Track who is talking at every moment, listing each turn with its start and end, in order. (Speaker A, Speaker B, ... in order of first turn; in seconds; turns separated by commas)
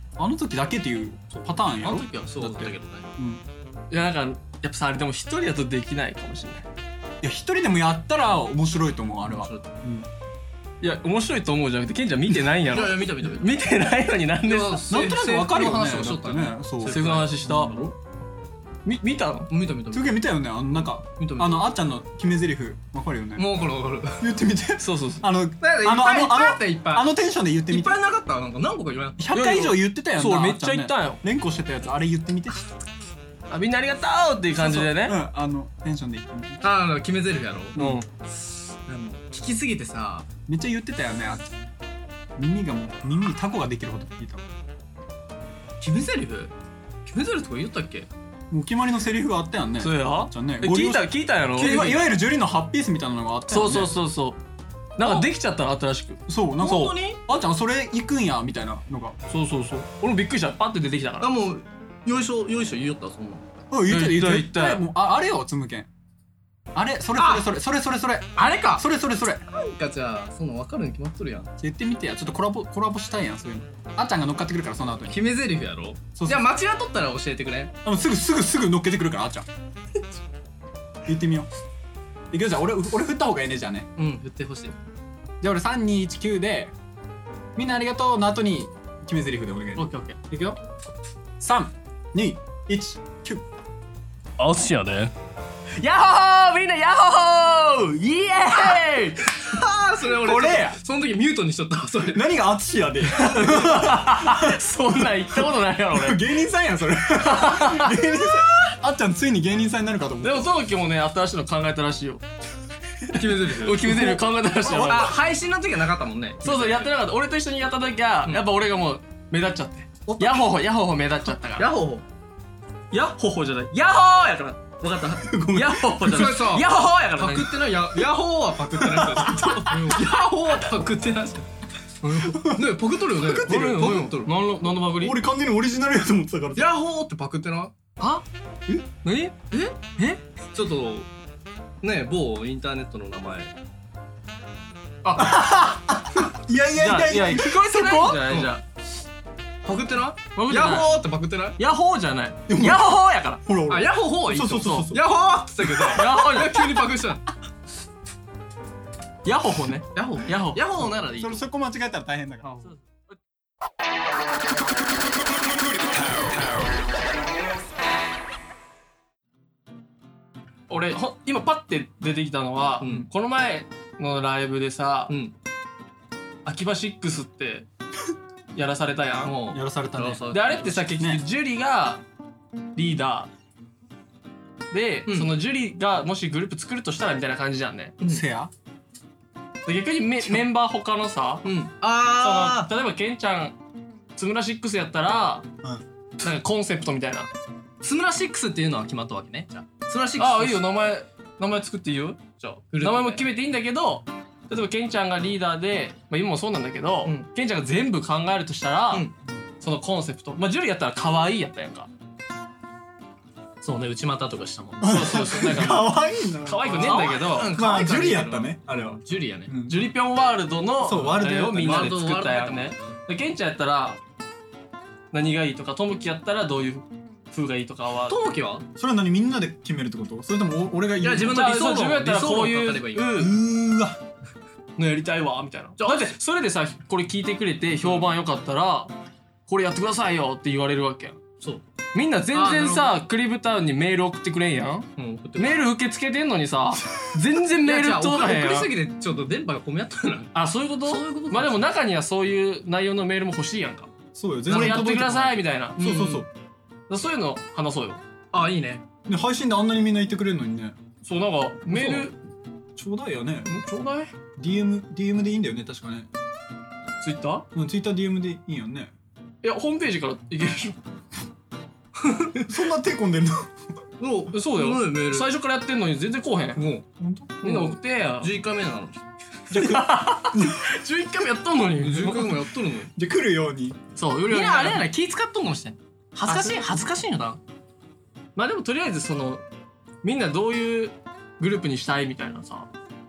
Speaker A: 0.2-3.4, Speaker B: 1.8-3.1, Speaker C: 3.9-6.7, Speaker A: 7.2-10.1, Speaker B: 9.2-9.7, Speaker C: 10.8-14.9, Speaker B: 12.7-13.6, Speaker B: 14.4-17.9, Speaker A: 14.9-17.0, Speaker C: 16.8-17.8, Speaker C: 18.8-19.5, Speaker B: 19.5-20.3, Speaker A: 19.9-23.5, Speaker B: 21.1-21.7, Speaker B: 23.4-24.2, Speaker A: 24.2-28.0, Speaker C: 24.8-25.2, Speaker B: 25.6-27.1, Speaker B: 27.7-29.2, Speaker A: 29.2-32.6, Speaker C: 29.3-31.2, Speaker C: 33.5-35.2, Speaker A: 34.5-36.6, Speaker B: 36.6-37.8, Speaker A: 37.7-38.0, Speaker C: 37.7-38.0, Speaker B: 38.9-40.3, Speaker A: 40.5-41.7, Speaker A: 42.4-44.5, Speaker B: 45.8-46.5, Speaker B: 47.0-48.1, Speaker A: 48.5-53.9, Speaker C: 49.8-52.1, Speaker C: 53.5-54.4, Speaker C: 55.0-56.2, Speaker B: 55.0-55.3, Speaker A: 56.3-59.2, Speaker B: 56.6-57.2, Speaker C: 59.3-61.3, Speaker B: 61.2-63.6, Speaker A: 63.7-65.9, Speaker C: 63.9-64.8, Speaker A: 66.7-69.4, Speaker B: 67.2-67.5, Speaker B: 68.3-68.8, Speaker B: 69.5-71.5, Speaker A: 71.6-75.2, Speaker B: 75.1-77.7, Speaker A: 76.1-76.5, Speaker A: 77.8-79.5, Speaker A: 81.0-81.5, Speaker A: 82.3-83.9, Speaker B: 84.0-84.8, Speaker A: 85.4-86.7, Speaker A: 87.5-90.6, Speaker C: 89.8-90.2, Speaker A: 91.4-93.4, Speaker B: 94.4-95.1, Speaker C: 95.8-99.2, Speaker B: 99.4-102.2, Speaker A: 100.2-100.8, Speaker A: 102.1-104.6, Speaker C: 103.0-106.2, Speaker A: 105.9-110.5, Speaker C: 107.2-108.0, Speaker C: 110.2-112.2, Speaker B: 113.1-114.2, Speaker C: 113.5-115.2, Speaker A: 113.9-115.1, Speaker B: 114.7-116.9, Speaker C: 116.4-121.7, Speaker A: 120.1-120.5, Speaker B: 121.6-122.0, Speaker C: 122.9-127.7, Speaker A: 125.2-126.5, Speaker B: 126.0-131.5, Speaker A: 128.8-129.8, Speaker C: 132.0-132.4, Speaker B: 132.1-134.3, Speaker A: 132.3-133.9, Speaker C: 133.3-135.2, Speaker A: 134.9-136.7, Speaker B: 136.5-137.7, Speaker C: 138.0-138.2, Speaker C: 139.0-139.3, Speaker B: 139.5-139.8, Speaker C: 139.9-140.2, Speaker B: 140.5-141.1, Speaker B: 141.8-143.5, Speaker C: 145.0-145.4, Speaker A: 145.2-148.5, Speaker C: 146.7-148.6, Speaker B: 149.6-151.6, Speaker C: 150.3-150.9, Speaker C: 151.6-153.4, Speaker A: 152.5-155.0, Speaker B: 153.7-157.2, Speaker C: 155.9-156.8, Speaker C: 159.2-160.6, Speaker B: 159.9-161.4, Speaker A: 161.2-162.7, Speaker C: 162.6-163.1, Speaker C: 170.7-175.1, Speaker B: 172.8-173.1, Speaker B: 175.1-175.3, Speaker C: 176.4-177.7, Speaker C: 178.5-179.3, Speaker B: 179.2-180.9, Speaker A: 179.5-180.3, Speaker C: 180.3-182.0, Speaker A: 180.8-181.2, Speaker C: 182.8-183.3, Speaker C: 184.7-187.9, Speaker A: 188.0-188.5, Speaker C: 189.7-191.5, Speaker B: 191.4-192.7, Speaker C: 192.1-193.6, Speaker C: 194.2-195.5, Speaker C: 196.2-197.3, Speaker B: 197.8-200.6, Speaker C: 200.2-202.2, Speaker B: 202.4-203.2, Speaker C: 202.8-209.1, Speaker C: 209.6-211.9, Speaker B: 213.6-215.2, Speaker A: 214.8-219.9, Speaker C: 214.8-217.5, Speaker B: 216.7-219.5, Speaker C: 219.7-224.0, Speaker A: 220.8-222.0, Speaker B: 221.5-223.0, Speaker C: 225.1-228.2, Speaker B: 228.1-228.7, Speaker A: 228.8-231.4, Speaker B: 231.0-233.2, Speaker C: 231.2-233.3, Speaker A: 233.1-234.0, Speaker C: 234.8-238.9, Speaker B: 235.8-236.1, Speaker C: 239.5-241.2, Speaker C: 241.9-248.7, Speaker B: 242.3-243.0, Speaker B: 245.0-245.7, Speaker B: 247.6-251.7, Speaker C: 250.3-253.9, Speaker A: 254.1-256.3, Speaker C: 254.4-256.0, Speaker B: 254.5-254.9, Speaker B: 255.8-256.2, Speaker C: 256.9-258.0, Speaker B: 258.3-258.8, Speaker A: 259.1-260.8, Speaker C: 261.0-262.1, Speaker B: 261.7-262.1, Speaker A: 262.8-263.5, Speaker C: 263.4-264.1, Speaker A: 264.4-266.1, Speaker C: 267.0-267.4, Speaker A: 267.5-268.9, Speaker C: 269.4-270.8, Speaker B: 272.0-272.3, Speaker A: 272.5-273.5, Speaker B: 274.0-275.3, Speaker C: 274.3-276.7, Speaker B: 276.5-276.8, Speaker A: 277.0-277.4, Speaker C: 277.4-278.3, Speaker B: 277.4-279.0, Speaker A: 279.5-280.7, Speaker C: 279.5-282.4, Speaker B: 281.8-282.9, Speaker A: 282.9-283.8, Speaker C: 283.9-284.9, Speaker B: 284.3-287.4, Speaker C: 286.3-286.7, Speaker C: 288.4-289.4, Speaker C: 290.0-292.7